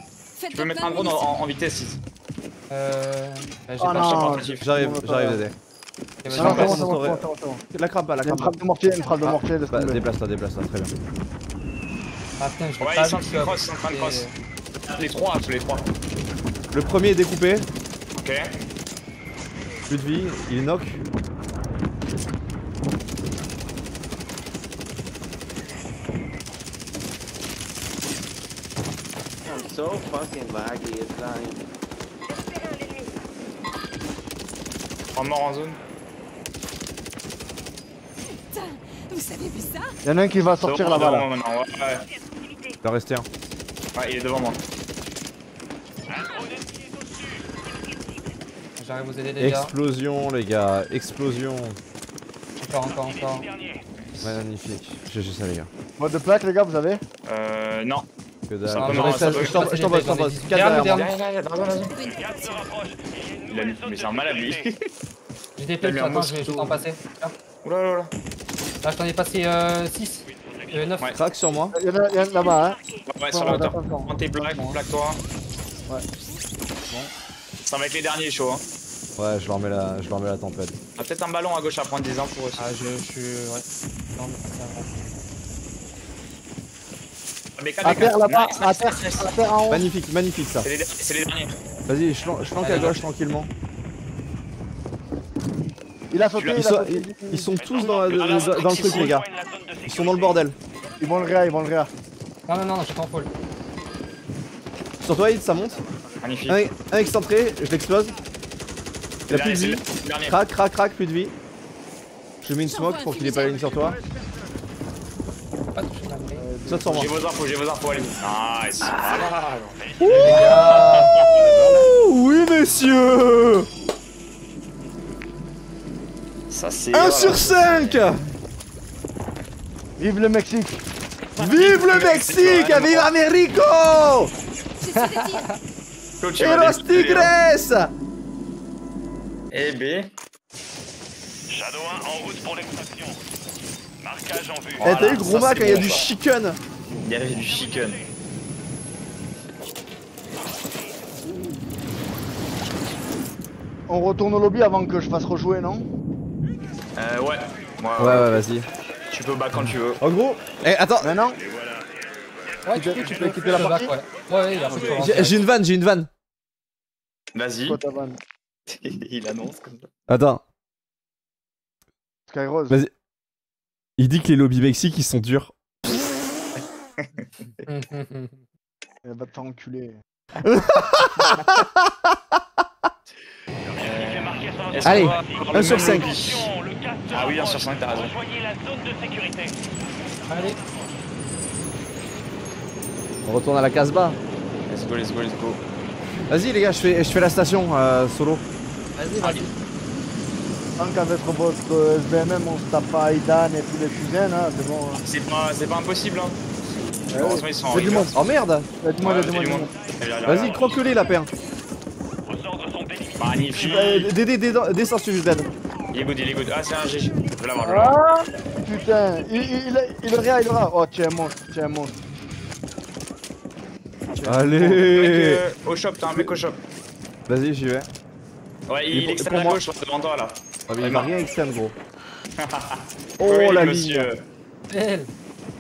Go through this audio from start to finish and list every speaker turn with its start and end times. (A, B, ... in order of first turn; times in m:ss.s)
0:00.4-0:01.4 A
0:00.5-0:02.0 B
0:02.7-0:04.4 C
0:03.8-0:05.4 D
0:03.9-0:04.7 B
0:04.6-0:05.6 E
0:06.2-0:06.9 C
0:06.2-0:08.6 E
0:06.3-0:07.6 D
0:06.4-0:06.8 B
0:08.2-0:10.0 D
0:09.2-0:10.9 E
0:12.4-0:14.3 C
0:12.8-0:14.3 B
0:14.9-0:15.9 B
0:16.7-0:17.7 E
0:18.1-0:18.5 B
0:19.9-0:21.0 E
0:29.4-0:31.6 F
0:35.1-0:35.8 B
0:38.3-0:39.9 A
0:40.0-0:41.3 D
0:40.6-0:42.1 B
0:42.8-0:43.3 E
0:43.9-0:44.6 B
0:46.1-0:47.5 G
0:48.8-0:49.7 C
0:49.4-0:51.8 E
0:52.6-0:53.5 C
0:52.9-0:53.8 G
0:54.0-0:54.4 B
0:54.2-0:55.7 E
0:56.0-0:57.0 D
0:57.2-0:58.1 B
0:58.5-1:01.0 E
0:58.6-1:00.0 B
0:58.8-1:01.1 C
1:00.6-1:01.9 B
1:01.9-1:02.7 A
1:02.0-1:04.7 G
1:03.5-1:04.8 B
1:05.6-1:07.3 C
1:05.8-1:06.6 B
1:07.6-1:08.1 B
1:08.8-1:11.1 C
1:10.3-1:10.9 G
1:11.1-1:11.8 E
1:11.7-1:14.1 D
1:13.1-1:15.2 B
1:17.6-1:18.6 B
1:19.2-1:20.8 E
1:21.0-1:22.6 B
1:22.6-1:23.6 C
1:24.2-1:24.9 C
1:27.6-1:29.4 B
1:27.8-1:29.8 D
1:29.7-1:30.7 E
1:30.6-1:31.5 B
1:31.9-1:33.5 E
1:32.6-1:33.0 C
1:36.1-1:37.5 D
1:36.3-1:36.6 B
1:36.5-1:39.3 E
1:37.5-1:40.4 G
1:38.1-1:39.1 B
1:39.8-1:40.6 E
1:41.0-1:41.9 D
1:42.5-1:43.3 C
1:45.0-1:45.8 E
1:46.2-1:46.6 B
1:46.5-1:48.1 E
1:49.3-1:50.4 B
1:49.3-1:51.3 E
1:52.4-1:54.0 E
1:52.6-1:54.0 A
1:55.7-1:56.5 C
1:56.4-1:57.1 D
1:56.7-1:57.1 E
1:56.9-1:59.8 B
1:59.8-2:00.7 G
2:00.0-2:03.7 E
2:00.0-2:01.1 C
2:00.6-2:01.8 B
2:06.5-2:08.0 B
2:06.9-2:08.2 E
2:10.0-2:10.8 D
2:11.4-2:13.1 B
2:11.4-2:14.3 E
2:14.8-2:15.5 A
2:14.9-2:15.6 C
2:16.2-2:17.3 B
2:16.4-2:17.9 E
2:19.5-2:20.1 B
2:21.5-2:23.2 G
2:24.0-2:24.9 G
2:24.8-2:26.6 E
2:24.8-2:26.1 B
2:27.0-2:28.0 B
2:27.3-2:28.1 G
2:33.9-2:35.9 D
2:37.0-2:38.4 B
2:38.0-2:38.7 E
2:39.1-2:40.0 B
2:39.6-2:41.2 E
2:41.0-2:41.4 D
2:42.6-2:45.4 C
2:42.7-2:43.9 D
2:44.4-2:45.1 G
2:44.7-2:45.3 B
2:45.0-2:46.1 E
2:47.3-2:47.8 B
2:47.6-2:48.2 D
2:48.7-2:49.9 B
2:50.1-2:50.4 E
2:52.3-2:52.8 D
2:54.0-2:55.5 E
2:57.0-2:57.2 B
2:57.6-2:58.4 C
2:59.0-3:00.0 D
3:00.4-3:02.1 E
3:01.0-3:01.4 B
3:03.7-3:09.6 G
3:03.8-3:06.5 B
3:04.8-3:06.2 E
3:07.1-3:08.1 B
3:10.3-3:10.6 C
3:10.3-3:10.8 G
3:13.2-3:14.2 E
3:14.7-3:15.6 B
3:16.3-3:18.4 E
3:19.0-3:19.5 C
3:20.8-3:25.0 D
3:25.0-3:26.4 B
3:27.1-3:28.1 B
3:27.1-3:28.2 D
3:28.1-3:28.7 E
3:28.8-3:29.7 D
3:29.0-3:30.8 B
3:30.2-3:31.3 E
3:32.2-3:33.9 G
3:33.2-3:34.1 B
3:33.5-3:35.5 E
3:35.9-3:38.0 B
3:37.6-3:42.0 D
3:44.2-3:44.6 D
3:44.2-3:45.4 E
3:44.6-3:46.6 B
3:47.3-3:47.9 E
3:48.7-3:51.1 B
3:48.9-3:49.6 E
3:50.7-3:51.7 E
3:52.4-3:54.2 B
3:53.2-3:54.1 E
3:54.7-3:55.1 C